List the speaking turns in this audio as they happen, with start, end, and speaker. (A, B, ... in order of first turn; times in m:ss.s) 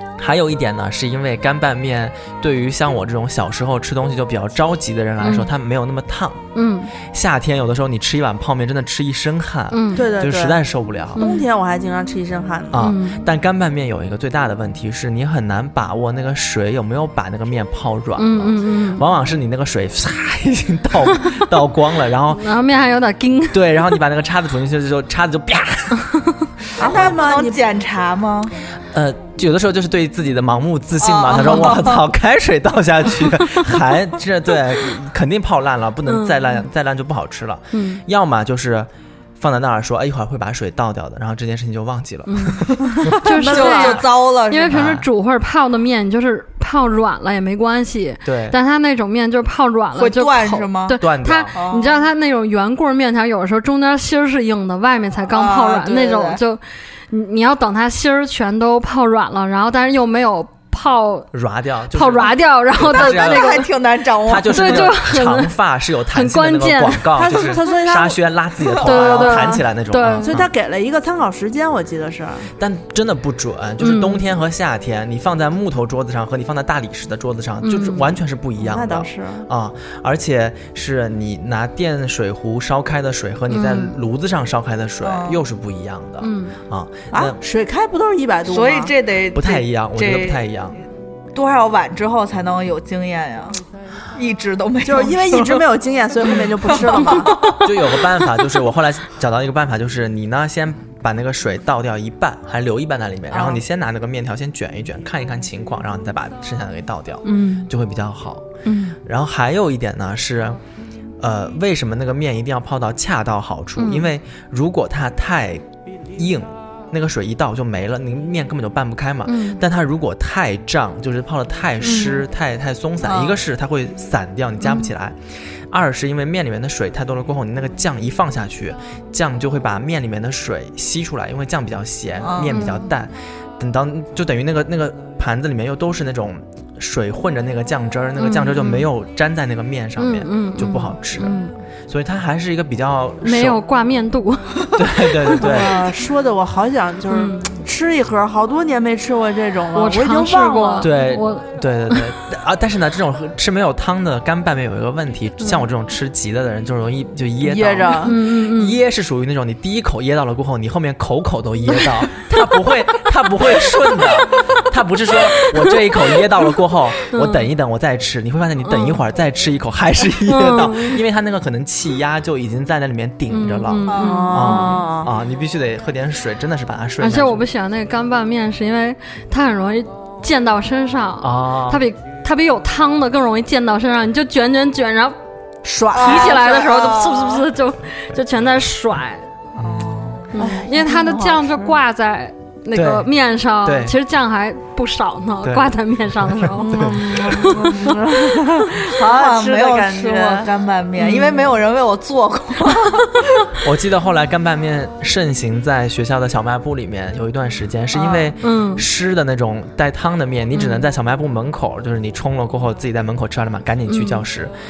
0:00.2-0:06.4 A
0:05.2-0:05.5 B
0:06.6-0:06.9 B
0:07.0-0:11.2 A
0:09.7-0:10.1 B
0:09.9-0:10.6 C
0:11.2-0:12.8 C
0:11.2-0:11.5 B
0:12.7-0:22.6 A
0:12.8-0:13.3 B
0:18.2-0:19.0 B
0:21.0-0:21.4 B
0:22.3-0:23.9 B
0:23.5-0:26.1 A
0:26.8-0:27.6 C
0:26.8-0:27.2 A
0:26.8-0:28.5 D
0:28.9-0:43.5 A
0:31.0-0:32.0 D
0:31.3-0:31.8 B
0:36.0-0:36.6 B
0:37.7-0:38.0 B
0:42.3-1:01.3 B
0:43.0-0:44.8 D
0:43.5-0:44.0 C
0:44.7-0:45.1 A
0:48.2-0:48.6 A
0:50.0-0:51.0 D
0:51.0-0:51.5 A
0:51.5-0:52.0 D
0:55.3-0:56.4 D
1:01.3-1:03.6 A
1:01.9-1:03.7 B
1:02.9-1:04.9 D
1:04.2-1:10.5 A
1:04.4-1:05.5 B
1:06.1-1:07.6 B
1:07.2-1:09.6 C
1:08.8-1:10.4 B
1:10.2-1:12.5 C
1:12.6-1:27.4 A
1:13.8-1:14.3 B
1:17.6-1:18.2 B
1:18.6-1:19.5 C
1:23.5-1:24.0 B
1:25.0-1:25.4 D
1:26.2-1:26.6 B
1:27.1-1:28.9 C
1:28.4-1:30.5 D
1:29.3-1:30.8 A
1:31.4-1:33.6 D
1:34.1-1:35.7 D
1:34.8-1:37.3 C
1:36.2-1:38.3 D
1:37.6-1:48.5 A
1:47.2-1:47.7 B
1:48.6-1:49.0 B
1:49.0-1:50.6 A
1:51.2-2:23.6 A
1:53.8-1:54.1 B
1:59.3-1:59.6 B
2:01.8-2:02.2 B
2:03.0-2:03.4 D
2:04.6-2:04.9 B
2:12.2-2:12.7 D
2:12.5-2:12.9 B
2:18.2-2:18.9 B
2:20.0-2:21.5 B
2:23.2-2:25.7 B
2:24.8-2:25.8 A
2:25.4-2:30.9 C
2:27.1-2:27.6 B
2:29.8-2:32.1 B
2:30.8-2:57.4 A
2:37.4-2:38.2 C
2:38.0-2:38.8 B
2:47.1-2:47.5 B
2:48.7-2:49.0 B
2:50.3-2:51.0 B
2:53.3-2:54.8 B
2:53.9-2:54.2 D
2:54.0-2:55.1 C
2:57.0-3:05.2 B
3:01.2-3:01.8 A
3:05.6-3:06.4 C
3:05.9-3:09.2 B
3:05.9-3:07.4 D
3:09.6-3:10.3 D
3:09.6-3:10.2 A
3:10.4-3:18.0 B
3:10.4-3:11.8 C
3:12.7-3:13.1 A
3:13.6-3:14.0 A
3:15.4-3:15.7 A
3:16.2-3:17.6 A
3:16.6-3:20.5 C
3:18.8-3:23.2 D
3:21.0-3:21.6 B
3:23.6-3:34.5 A
3:27.9-3:28.3 D
3:28.4-3:28.8 B
3:30.5-3:30.9 B
3:33.9-3:34.2 B